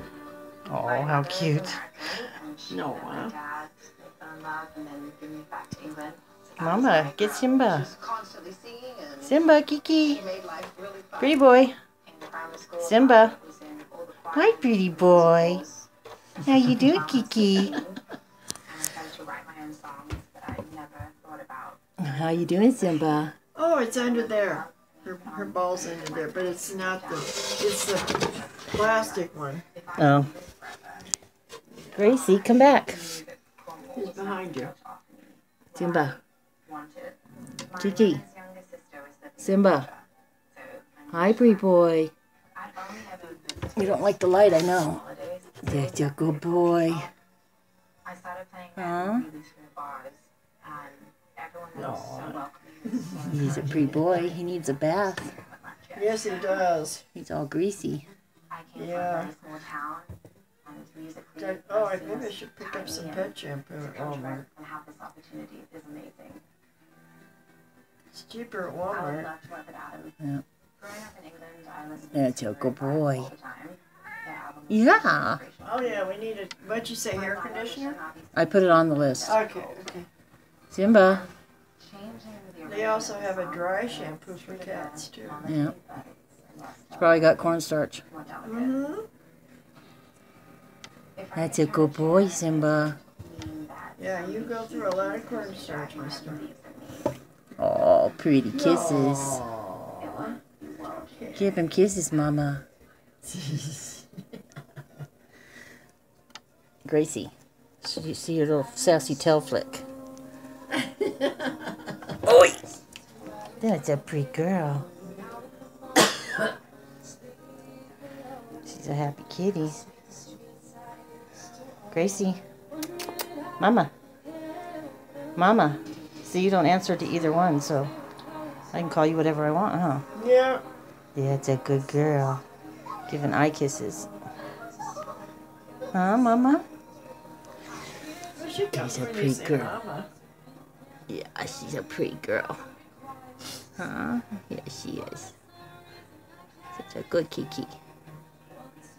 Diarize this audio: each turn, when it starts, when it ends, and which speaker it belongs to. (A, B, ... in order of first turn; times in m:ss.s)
0:00.6-0:01.8 A
0:00.9-0:07.6 B
0:02.7-0:03.4 C
0:06.6-0:07.9 A
0:09.2-0:10.3 A
0:11.2-0:11.8 A
0:12.1-0:15.8 B
0:12.8-0:13.4 A
0:14.3-0:15.6 A
0:16.4-0:17.8 A
0:16.9-0:18.0 B
0:18.7-0:21.8 B
0:22.0-0:23.3 A
0:23.5-0:29.6 C
0:24.1-0:27.2 B
0:28.6-0:31.0 B
0:30.0-0:30.3 A
0:31.9-0:33.2 A
0:32.0-0:35.2 B
0:33.9-0:34.7 C
0:35.7-0:36.2 A
0:35.8-0:36.1 B
0:36.7-0:37.1 B
0:37.7-0:38.2 A
0:37.7-0:39.8 B
0:39.4-0:39.9 A
0:40.8-0:41.6 B
0:41.1-0:42.1 A
0:42.6-0:47.0 B
0:43.7-0:45.0 A
0:45.6-0:47.1 A
0:48.1-0:54.4 B
0:48.8-0:49.3 A
0:51.7-0:53.8 C
0:53.3-0:55.3 A
0:55.4-0:56.6 B
0:56.0-0:57.0 C
0:57.1-0:58.1 A
0:58.5-1:00.1 B
0:58.8-0:59.3 C
1:00.7-1:03.3 B
1:01.4-1:04.5 C
1:04.0-1:06.4 B
1:08.1-1:09.3 C
1:09.2-1:10.1 B
1:10.8-1:16.0 B
1:12.1-1:13.3 A
1:14.7-1:15.4 A
1:15.6-1:18.0 C
1:17.3-1:19.6 B
1:18.3-1:19.4 A
1:19.2-1:20.1 C
1:20.7-1:21.3 A
1:21.9-1:27.5 B
1:22.6-1:25.4 C
1:25.4-1:25.7 A
1:26.9-1:28.0 A
1:28.1-1:28.8 B
1:28.4-1:29.1 C
1:31.2-1:37.1 B
1:31.4-1:33.0 A
1:34.0-1:36.4 C
1:37.6-1:39.4 A
1:38.5-1:40.4 C
1:40.0-1:41.6 B
1:41.2-1:41.4 C
1:41.3-1:42.6 A
1:43.3-1:44.0 C
1:46.8-1:49.8 A
1:52.2-1:52.6 A
1:53.6-1:54.8 A
1:58.6-1:59.8 A
2:01.9-2:02.4 A
2:03.6-2:03.9 A
2:05.4-2:07.9 A
2:08.7-2:10.0 A
2:10.1-2:10.6 C
2:11.2-2:12.4 A
2:13.1-2:14.1 A
2:15.9-2:16.6 A
2:18.3-2:20.1 C
2:18.7-2:19.7 A
2:21.1-2:22.6 A
2:23.8-2:25.3 A
2:26.8-2:27.7 A